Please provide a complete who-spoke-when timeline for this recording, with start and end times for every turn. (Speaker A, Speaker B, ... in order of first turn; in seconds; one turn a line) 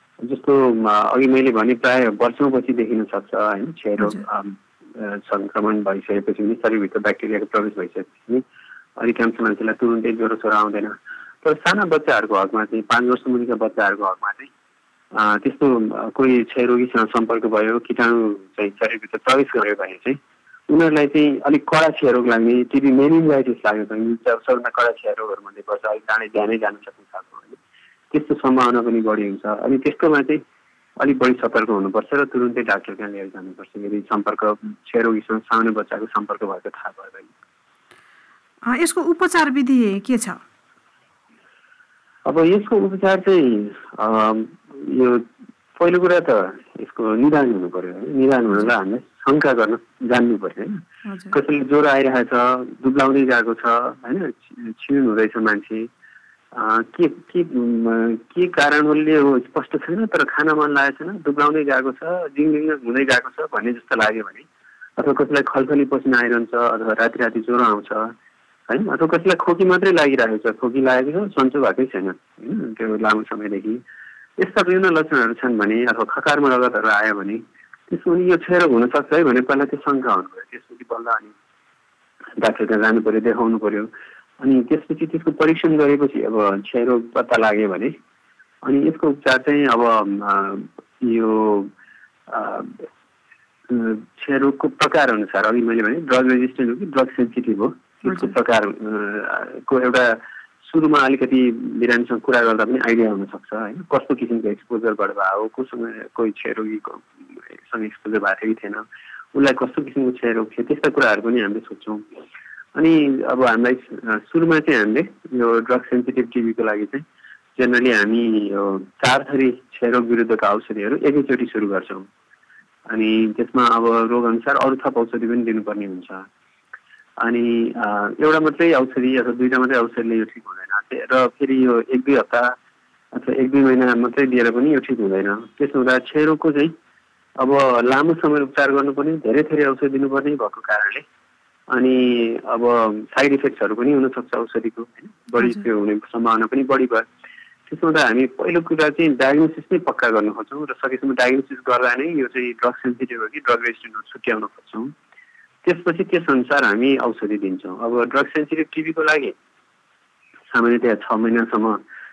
Speaker A: 0.3-8.4
Speaker A: 9.0-14.5
Speaker A: 15.1-27.6
Speaker A: 28.1-30.4
Speaker A: 31.0-37.3
Speaker B: 38.7-40.4
Speaker A: 42.3-45.2
Speaker A: 45.8-50.8
Speaker B: 51.1-51.3
Speaker A: 51.3-55.9
Speaker A: 56.5-68.1
Speaker A: 68.7-73.8
Speaker A: 74.4-81.3
Speaker A: 82.4-83.9
Speaker A: 84.4-87.9
Speaker A: 88.7-91.7
Speaker A: 92.3-92.9
Speaker A: 93.7-108.8
Speaker B: 98.1-98.3
Speaker A: 109.3-112.0
Speaker A: 112.8-117.0
Speaker A: 117.6-122.1
Speaker A: 122.9-126.2
Speaker A: 127.2-132.6
Speaker A: 133.1-136.7
Speaker A: 137.4-141.0
Speaker A: 141.7-147.1
Speaker A: 147.7-154.9
Speaker A: 155.7-159.3
Speaker A: 160.5-161.8